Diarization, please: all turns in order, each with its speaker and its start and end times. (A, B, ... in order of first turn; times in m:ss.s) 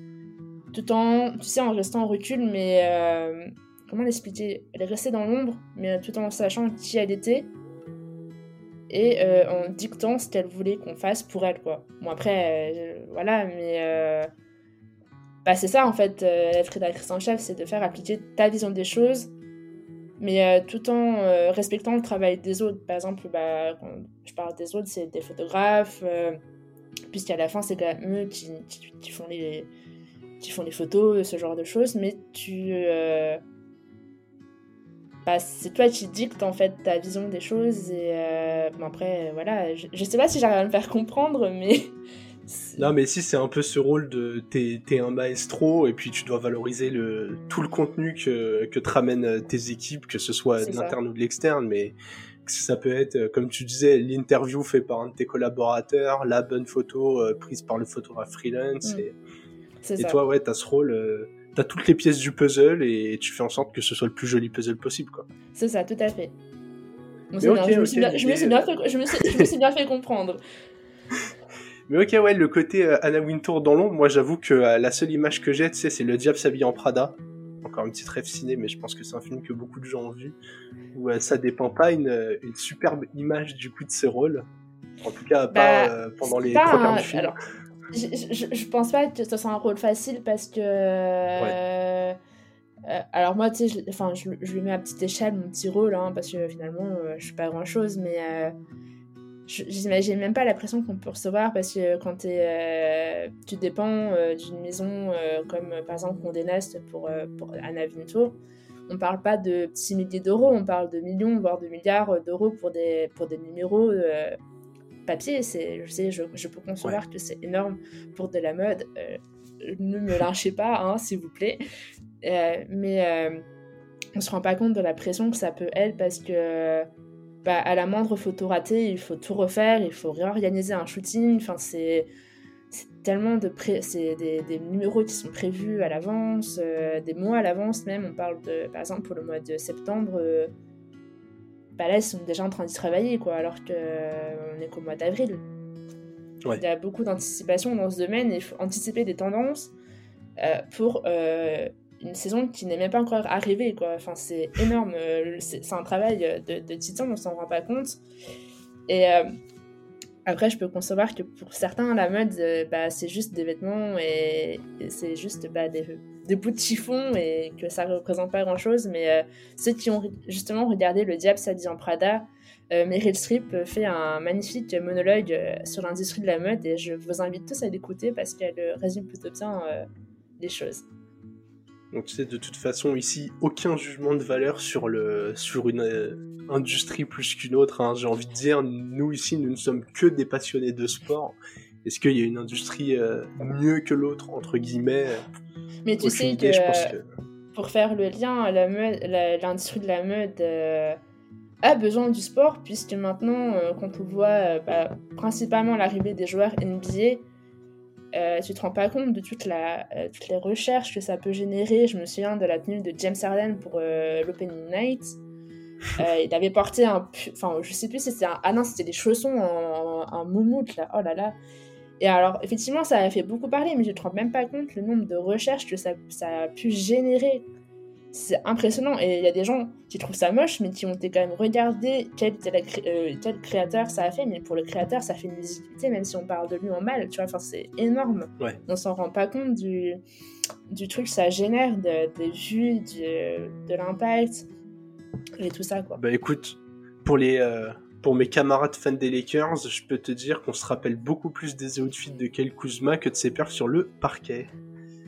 0:00.7-0:07.5 A
0:08.9-0:14.3 A
0:15.4-0:19.3 A
0:20.2-0:26.4 A
0:27.1-0:29.7 A
0:30.4-0:33.4 A
0:35.2-0:41.9 A
0:42.5-0:42.9 A
0:42.8-0:59.1 B
0:50.6-0:51.0 A
0:59.8-1:00.2 A
1:00.0-1:05.3 B
1:05.5-1:06.3 A
1:07.3-1:10.4 A
1:07.4-1:08.6 B
1:11.9-1:20.3 B
1:20.9-1:24.4 B
1:25.0-1:27.4 B
1:25.5-1:27.4 A
1:27.9-1:32.2 A
1:32.8-1:38.5 A
1:39.5-1:54.4 A
1:55.1-2:01.6 A
2:02.2-2:03.4 A
2:04.1-2:06.9 A
2:07.4-2:12.1 A
2:12.7-2:20.5 A
2:21.8-2:25.4 A
2:26.6-2:29.7 A
2:30.4-2:38.0 A
2:38.9-2:39.3 A
2:40.2-2:59.8 A
3:00.4-3:00.8 A
3:01.9-3:15.3 B
3:15.8-3:16.9 A
3:16.0-3:17.1 B
3:17.5-3:21.0 A
3:21.6-3:27.2 A
3:28.1-3:35.2 A
3:36.0-3:41.4 A
3:42.0-3:47.4 A
3:48.1-4:00.0 A
4:00.7-4:04.5 A
4:05.4-4:06.0 A
4:06.0-4:14.5 B